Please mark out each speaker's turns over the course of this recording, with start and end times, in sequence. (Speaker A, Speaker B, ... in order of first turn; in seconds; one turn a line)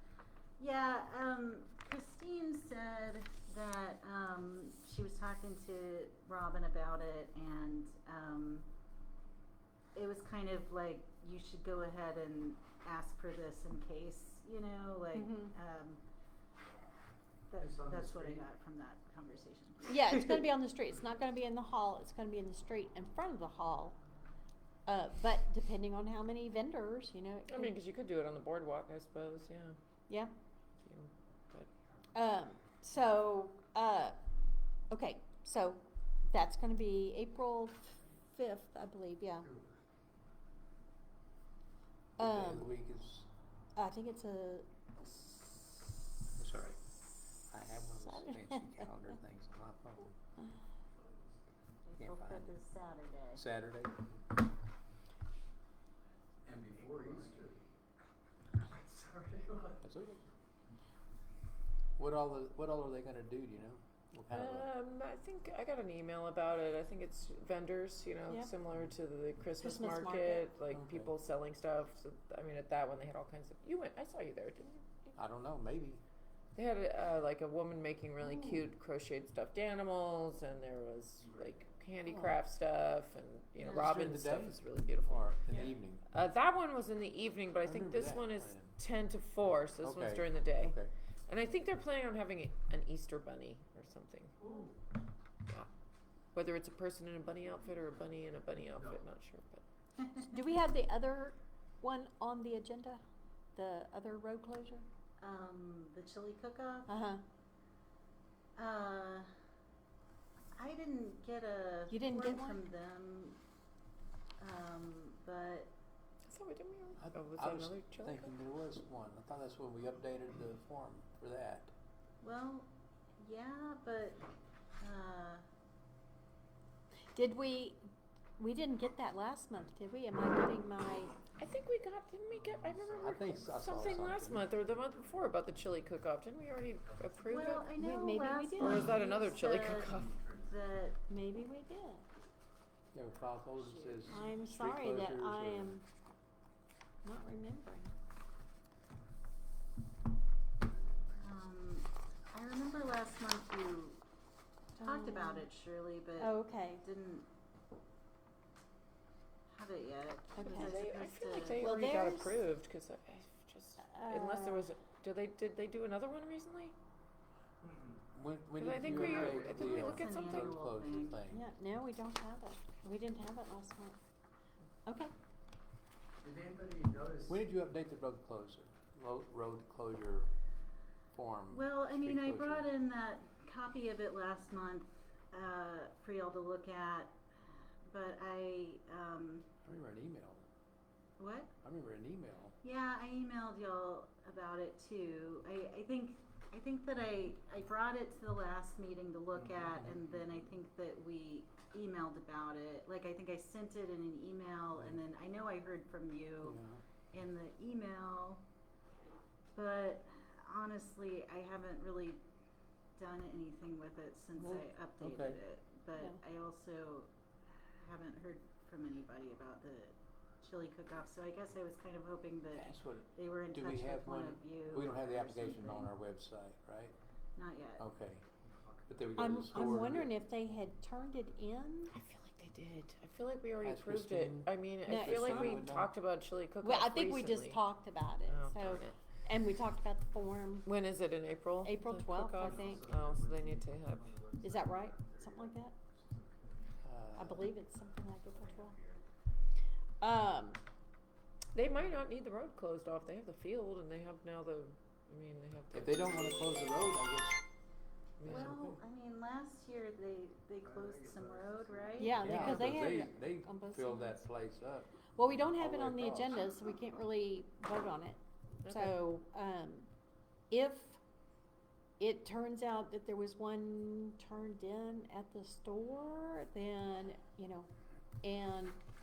Speaker A: 0.6-8.7
Speaker A: 9.9-16.0
Speaker B: 15.1-15.6
Speaker A: 17.5-20.4
Speaker C: 17.6-18.4
Speaker B: 19.9-24.0
Speaker B: 24.9-27.8
Speaker D: 27.5-29.8
Speaker D: 30.9-31.7
Speaker B: 32.1-34.2
Speaker B: 34.9-39.5
Speaker B: 42.2-42.7
Speaker E: 42.2-43.3
Speaker B: 43.8-46.0
Speaker E: 46.4-46.8
Speaker E: 47.5-50.2
Speaker B: 48.0-49.0
Speaker A: 51.9-53.4
Speaker E: 52.0-52.5
Speaker E: 53.4-54.1
Speaker C: 56.5-57.6
Speaker E: 56.9-57.3
Speaker C: 58.6-59.8
Speaker E: 59.8-60.2
Speaker E: 62.0-64.7
Speaker D: 64.3-75.2
Speaker B: 69.6-70.5
Speaker E: 70.7-71.1
Speaker E: 75.2-76.0
Speaker D: 76.5-85.3
Speaker E: 82.1-82.4
Speaker E: 83.6-86.0
Speaker D: 86.1-94.4
Speaker E: 87.6-88.8
Speaker E: 89.8-90.9
Speaker D: 96.3-99.6
Speaker A: 100.0-100.3
Speaker B: 100.3-103.0
Speaker B: 103.5-104.9
Speaker A: 105.2-106.9
Speaker B: 106.9-107.2
Speaker A: 108.6-109.3
Speaker A: 110.6-113.4
Speaker B: 111.9-112.6
Speaker A: 114.4-115.7
Speaker D: 116.2-118.4
Speaker E: 117.0-121.7
Speaker A: 122.2-124.2
Speaker A: 124.8-125.4
Speaker B: 127.2-127.8
Speaker B: 128.4-131.2
Speaker D: 131.4-137.7
Speaker C: 132.6-133.0
Speaker E: 133.0-134.5
Speaker C: 134.8-135.2
Speaker A: 137.2-141.0
Speaker B: 137.8-138.9
Speaker D: 138.6-140.2
Speaker B: 141.1-142.1
Speaker E: 142.9-145.8
Speaker A: 143.6-144.3
Speaker B: 144.1-145.9
Speaker B: 147.0-147.9
Speaker A: 151.2-154.0
Speaker B: 154.8-155.5
Speaker A: 154.8-157.3
Speaker B: 156.2-156.8
Speaker A: 159.5-161.7
Speaker B: 160.4-160.9
Speaker D: 160.4-166.7
Speaker B: 161.6-162.4
Speaker B: 163.8-164.7
Speaker E: 168.1-171.4
Speaker D: 168.6-170.6
Speaker A: 168.8-171.2
Speaker B: 171.3-174.0
Speaker B: 174.9-175.1
Speaker C: 176.2-177.3
Speaker E: 177.3-180.3
Speaker E: 181.1-182.7
Speaker A: 181.5-187.2
Speaker A: 187.8-189.5
Speaker E: 189.7-190.5
Speaker A: 191.2-191.5
Speaker E: 191.6-192.6
Speaker A: 192.6-206.6
Speaker E: 206.4-206.8
Speaker A: 207.1-208.4
Speaker A: 209.6-212.2
Speaker A: 213.0-217.1
Speaker E: 214.4-215.4
Speaker B: 215.9-216.2
Speaker A: 217.8-225.9
Speaker E: 222.6-227.0
Speaker A: 227.4-227.8
Speaker E: 227.8-228.3
Speaker C: 228.5-229.0
Speaker E: 228.9-230.1
Speaker B: 229.2-231.9
Speaker D: 231.9-237.6
Speaker E: 233.6-235.9
Speaker B: 234.9-235.7
Speaker B: 236.6-240.7
Speaker D: 238.3-239.0
Speaker D: 240.7-244.1
Speaker B: 241.6-242.9
Speaker C: 242.4-246.6
Speaker B: 244.4-245.8
Speaker E: 246.8-247.5
Speaker B: 247.2-248.8
Speaker C: 248.5-248.9
Speaker B: 250.0-250.6
Speaker D: 251.5-256.6
Speaker E: 255.7-257.4
Speaker D: 258.2-258.6
Speaker E: 258.2-258.8
Speaker A: 258.2-262.4
Speaker C: 260.6-262.1
Speaker B: 262.0-264.3
Speaker E: 262.2-266.5
Speaker D: 262.2-262.7
Speaker B: 265.1-269.9
Speaker D: 268.6-269.0
Speaker B: 270.5-271.0
Speaker B: 272.0-277.7
Speaker B: 278.2-278.8